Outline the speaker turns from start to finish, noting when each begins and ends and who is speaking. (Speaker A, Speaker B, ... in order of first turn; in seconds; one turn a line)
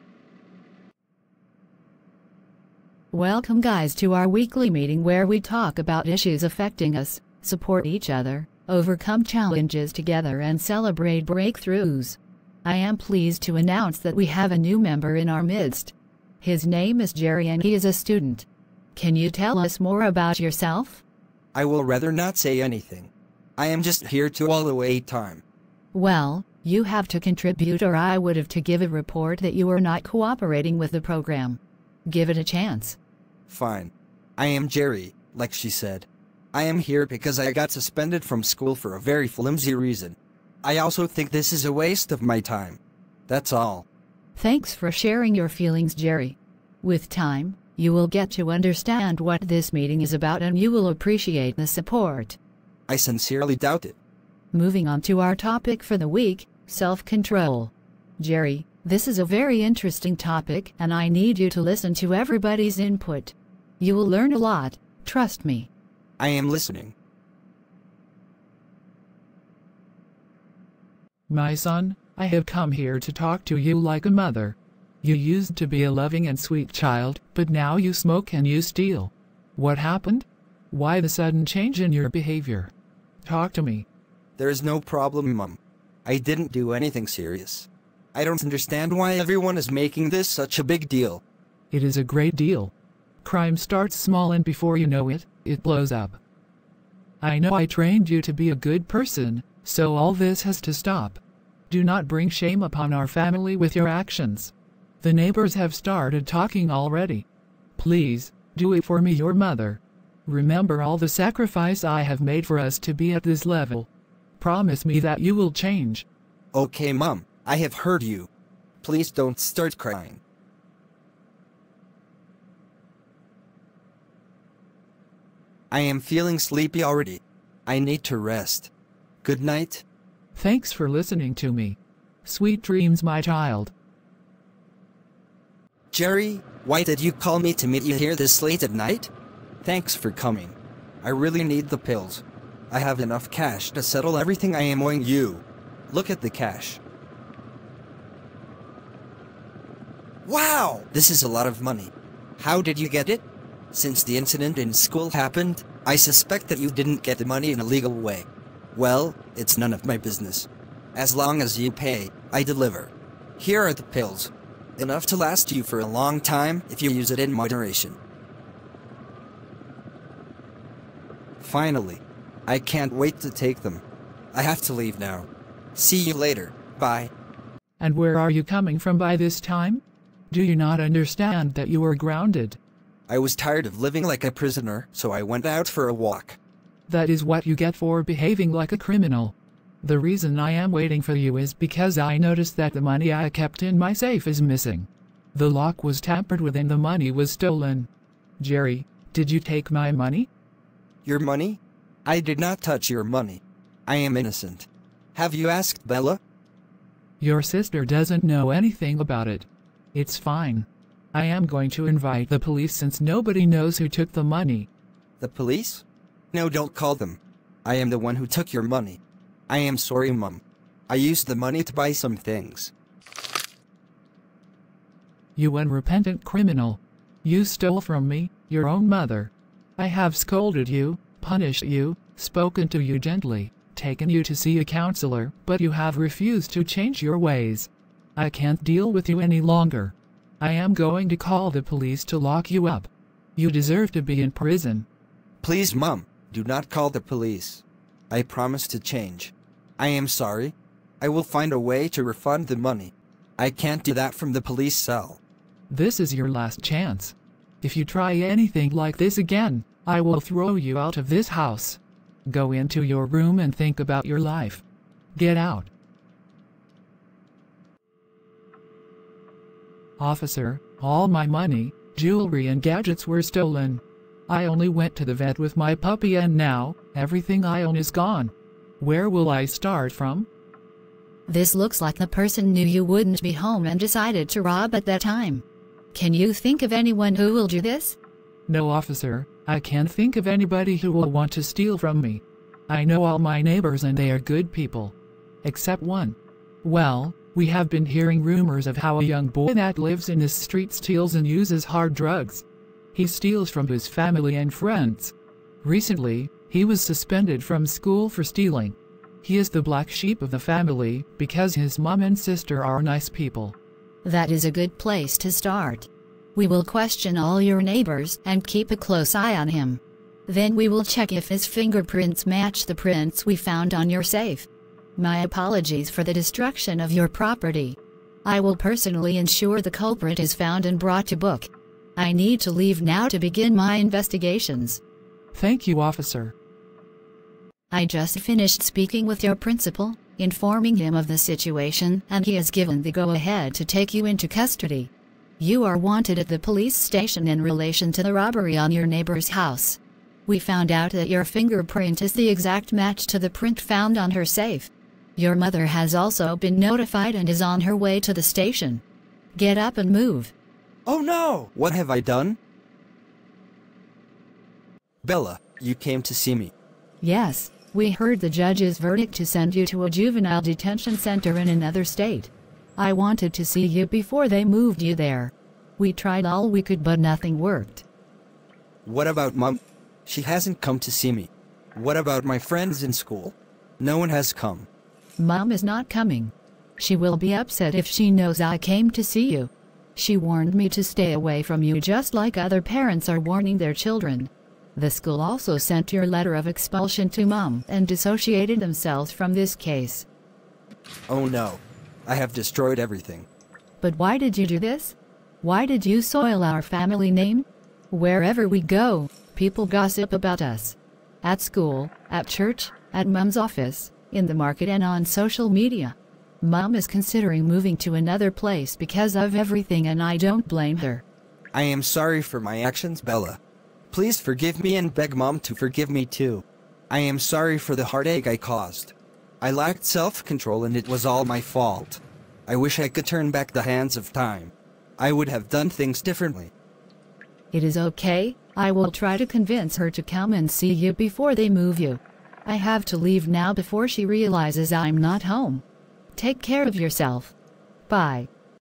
Speaker A: 3.1-21.0
Speaker B: 21.5-25.4
Speaker A: 25.9-33.0
Speaker B: 33.5-43.9
Speaker A: 44.4-52.4
Speaker B: 52.9-54.0
Speaker A: 54.5-65.7
Speaker B: 66.2-67.0
Speaker C: 71.3-82.7
Speaker C: 83.2-83.8
Speaker B: 84.4-91.2
Speaker C: 91.7-92.7
Speaker C: 93.2-96.2
Speaker C: 97.2-107.2
Speaker C: 107.8-113.9
Speaker C: 114.4-116.0
Speaker B: 116.5-118.3
Speaker B: 118.8-120.2
Speaker B: 125.7-128.7
Speaker B: 129.2-129.8
Speaker C: 130.4-133.7
Speaker B: 135.9-139.1
Speaker B: 139.6-146.8
Speaker B: 150.3-168.0
Speaker B: 171.4-177.1
Speaker C: 177.8-182.6
Speaker B: 183.1-186.4
Speaker C: 186.9-200.3
Speaker B: 201.1-206.2
Speaker C: 207.2-214.7
Speaker B: 215.2-222.7
Speaker C: 225.4-244.9
Speaker B: 245.4-255.2
Speaker C: 255.7-264.6
Speaker C: 265.1-265.7
Speaker C: 270.0-280.3
Speaker A: 281.3-285.4
Speaker A: 285.9-288.0
Speaker C: 288.5-313.6
Speaker A: 314.1-334.8
Speaker C: 335.3-336.3
Speaker A: 337.7-358.8
Speaker A: 359.4-360.3
Speaker B: 360.9-362.4
Speaker B: 365.0-366.5
Speaker A: 367.0-377.8
Speaker B: 378.9-384.7
Speaker A: 385.2-400.1
Speaker B: 401.1-403.3
Speaker A: 403.8-421.0
Speaker B: 421.5-423.4
Speaker B: 423.9-436.5
Speaker A: 437.5-445.6
Speaker A: 446.1-447.3
Speaker A: 447.9-448.3